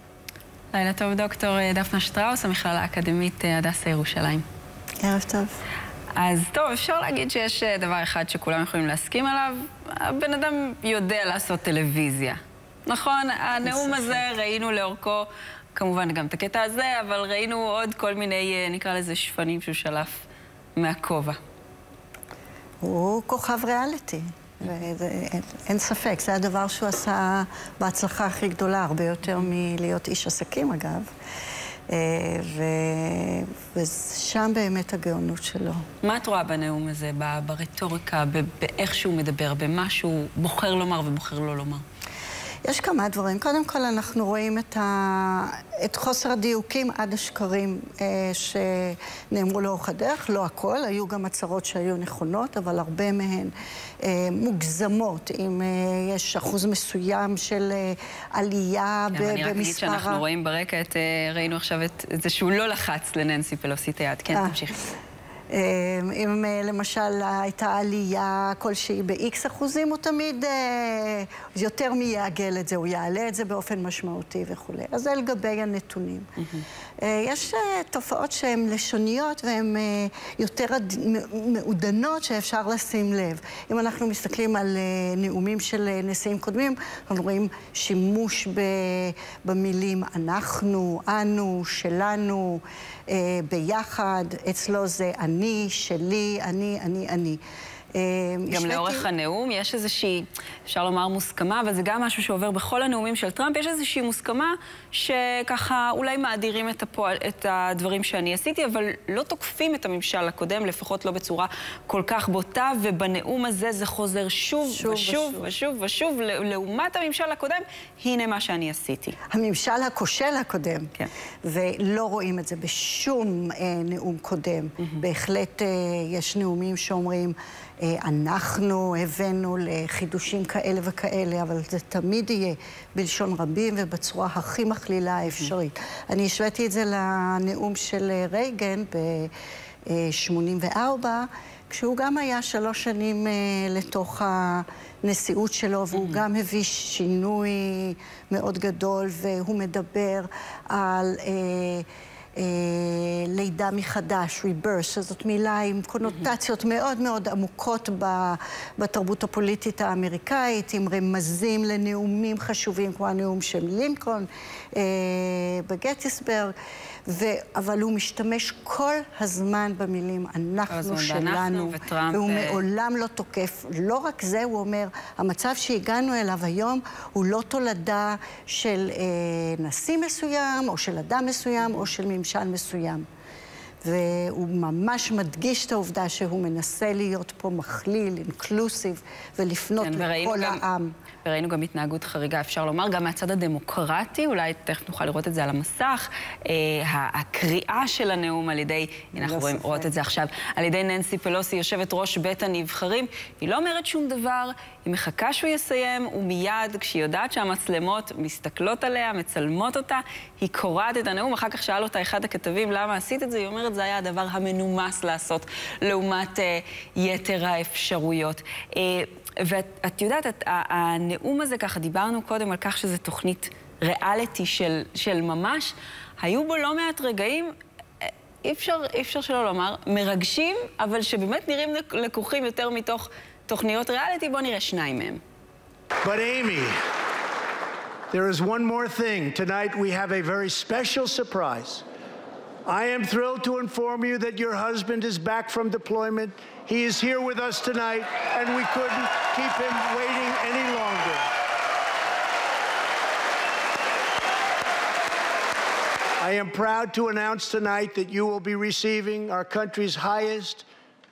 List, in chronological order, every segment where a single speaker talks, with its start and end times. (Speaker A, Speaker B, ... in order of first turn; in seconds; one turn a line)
Speaker A: 0.7-4.4
Speaker B: 5.0-5.5
Speaker A: 6.1-20.2
Speaker B: 13.6-14.2
Speaker A: 20.8-21.4
Speaker B: 22.8-31.1
Speaker B: 31.9-35.8
Speaker A: 36.0-41.8
Speaker B: 42.6-60.2
Speaker A: 59.1-64.8
Speaker B: 64.3-64.6
Speaker B: 65.5-76.3
Speaker B: 77.0-97.4
Speaker B: 97.9-99.0
Speaker A: 98.5-119.2
Speaker B: 114.7-115.5
Speaker B: 119.3-120.9
Speaker B: 121.4-139.3
Speaker B: 139.8-166.5
Speaker A: 145.9-146.2
Speaker B: 167.1-183.1
Speaker A: 170.7-172.6
Speaker B: 183.8-190.9
Speaker A: 189.8-190.6
Speaker A: 191.2-235.2
Speaker B: 199.1-199.9
Speaker C: 236.0-236.8
Speaker C: 238.1-241.8
Speaker C: 242.7-251.3
Speaker C: 256.2-260.6